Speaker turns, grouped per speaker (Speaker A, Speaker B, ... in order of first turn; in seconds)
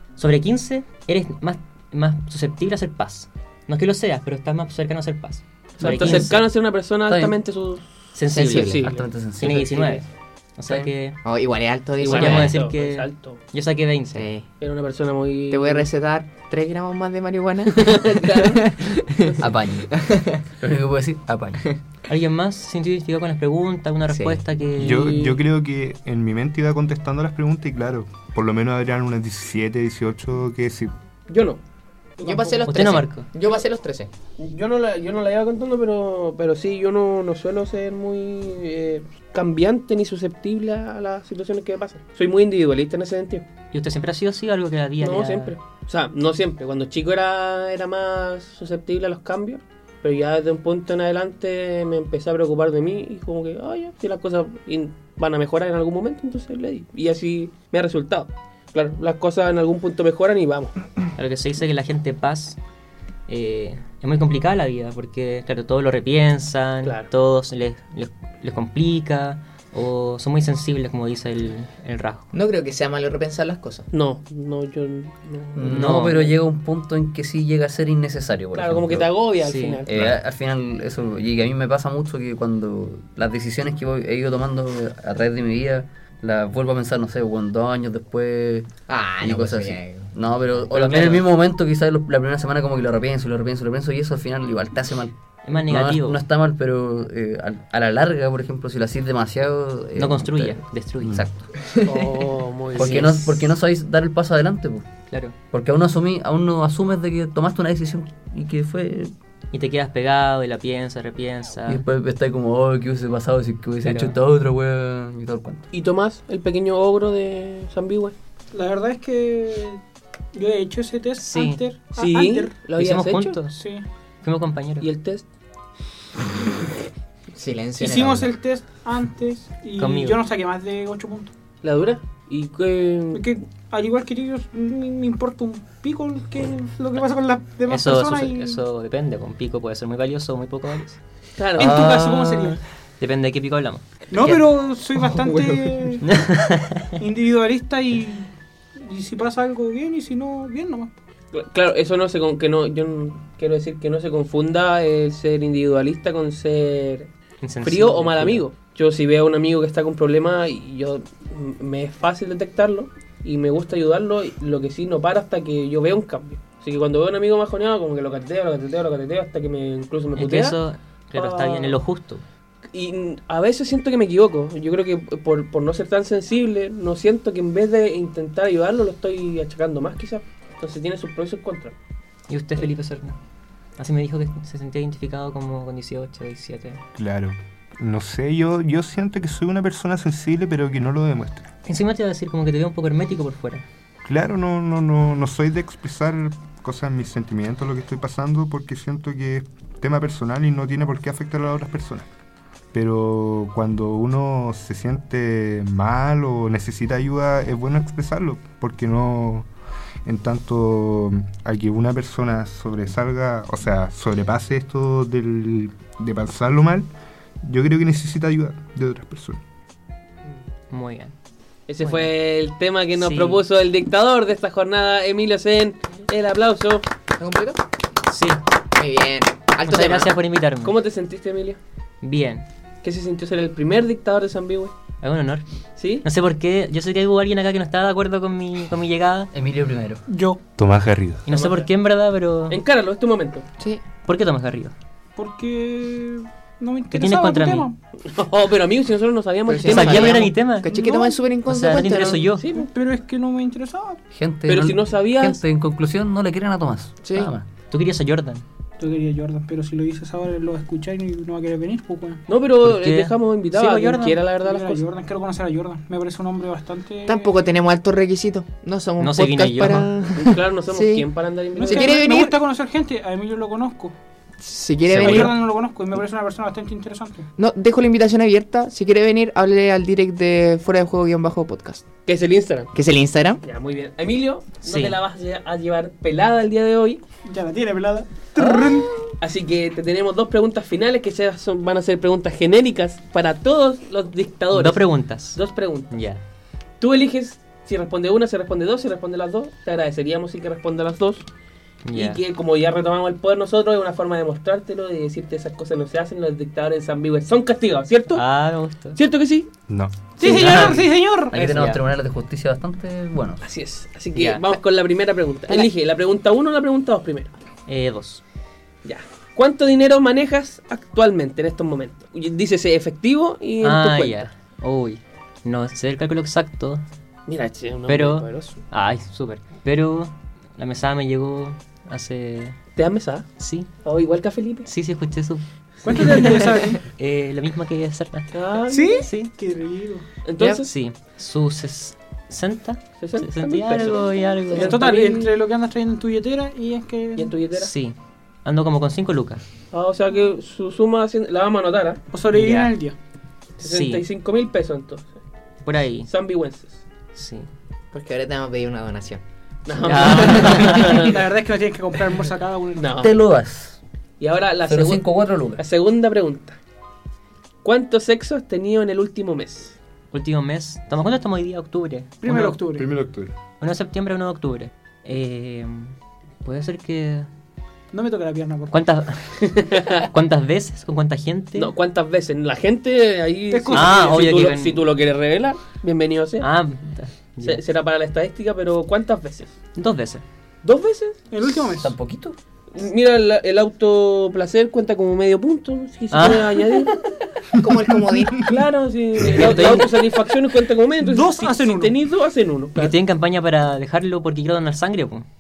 Speaker A: 0.2-6.5, 8.2-11.2, 12.0-14.3, 22.1-25.4, 32.7-33.3, 43.7-45.6, 61.2-62.6, 63.3-72.3, 75.7-76.3, 79.4-79.9, 90.6-91.3, 95.5-96.2, 100.0-101.3, 102.8-103.5, 109.5-111.8, 113.8-114.2, 121.2-121.6, 122.8-123.6, 124.2-124.9, 129.8-130.2, 137.7-141.0, 141.6-143.8, 146.0-147.0, 157.4-158.4, 170.2-172.2, 182.3-183.2, 183.8-186.8, 191.7-193.7, 220.7-221.1, 223.0-223.4, 228.1-228.4, 229.7-230.8, 232.0-232.4, 235.0-235.4, 236.0-239.3, 241.3-242.6, 244.1-244.7, 246.9-247.7, 249.7-250.7, 251.4-252.5, 257.7-258.4, 262.6-264.3, 269.0-269.9, 284.6-285.0, 294.5-295.4, 295.9-296.2, 301.9-302.2, 308.1-309.0, 310.2-311.8, 314.1-314.4, 317.7-318.2, 323.6-326.8, 327.9-332.6, 333.4-333.7, 334.7-338.3, 339.0-339.3, 340.5-344.9, 347.5-349.4, 352.4-352.7, 353.6-354.0, 355.6-356.1, 357.1-357.5, 359.9-361.0, 370.1-372.7, 373.6-377.3, 378.7-381.7, 383.7-384.8, 386.4-387.6, 389.8-390.2, 396.1-396.6, 399.3-399.9, 402.8-405.2
Speaker B: 5.8-9.1, 12.0-13.4, 14.6-15.9, 17.7-19.3, 24.8-25.4, 31.3-31.6, 34.4-43.5, 45.0-60.8, 73.9-76.3, 78.5-79.9, 101.9-103.1, 115.7-118.1, 122.0-123.4, 124.8-125.2, 131.6-133.2, 141.4-141.9, 151.3-157.1, 157.6-170.6, 171.2-171.8, 172.7-181.8, 221.7-226.9, 230.6-231.6, 232.8-234.7, 235.8-236.1, 241.3-241.7, 242.5-243.5, 248.1-250.3, 252.2-252.7, 254.5-255.4, 262.3-264.8, 270.1-272.0, 282.1-282.7, 283.4-287.0, 289.2-296.0, 296.8-301.3, 301.9-308.3, 308.9-309.5, 310.2-310.7, 313.4-317.3, 318.8-324.3, 327.3-328.6, 332.8-333.3, 333.8-334.7, 338.3-339.1, 340.2-340.7, 343.0-345.4, 347.2-347.7, 349.7-352.7, 353.6-355.2, 356.1-356.8, 359.7-361.2, 362.8-363.1, 364.2-366.6, 367.6-369.8, 379.4-380.1, 381.6-386.5, 387.4-389.6, 390.6-391.2, 392.7-397.0, 398.4-402.9
Speaker C: 7.1-7.3, 8.7-9.9, 19.4-21.7, 75.6-79.2, 79.9-101.5, 102.8-104.9, 105.5-109.1, 111.7-115.7, 144.2-144.5, 145.0-145.5, 239.3-240.0, 254.1-257.5, 274.9-275.3, 311.3-313.4, 363.0-363.8, 364.7-365.6, 391.6-392.4
Speaker D: 8.3-8.8, 11.2-12.5, 14.1-14.5, 15.5-20.4, 24.1-24.4, 32.2-34.1, 72.3-73.9, 88.9-90.1, 101.7-102.1, 127.3-128.3, 227.2-227.6, 228.8-230.2, 249.5-252.3, 257.0-257.3, 267.1-271.1, 271.6-272.4, 274.4-275.4, 277.4-281.9, 282.7-283.4, 357.9-359.2, 397.5-398.5
Speaker E: 24.8-30.9, 186.9-191.5, 194.1-202.1, 202.7-209.5, 210.1-216.9, 217.4-219.4, 240.6-241.2, 309.7-310.1, 372.7-373.4
Speaker F: 32.2-32.8, 118.5-119.8, 120.3-122.6, 123.5-123.8, 127.8-131.3, 133.1-138.6, 141.6-142.6, 144.1-146.1, 147.0-150.9, 240.1-240.4, 245.2-247.8, 250.7-251.2, 252.6-254.0, 258.8-262.2, 264.4-267.3, 271.6-273.9, 275.0-277.3, 287.3-289.0, 310.2-311.4, 335.8-336.8, 338.7-340.1, 344.5-347.4, 352.1-353.0, 360.8-363.0, 372.2-372.9, 377.9-378.8, 383.5-384.2, 391.3-391.9, 401.0-401.9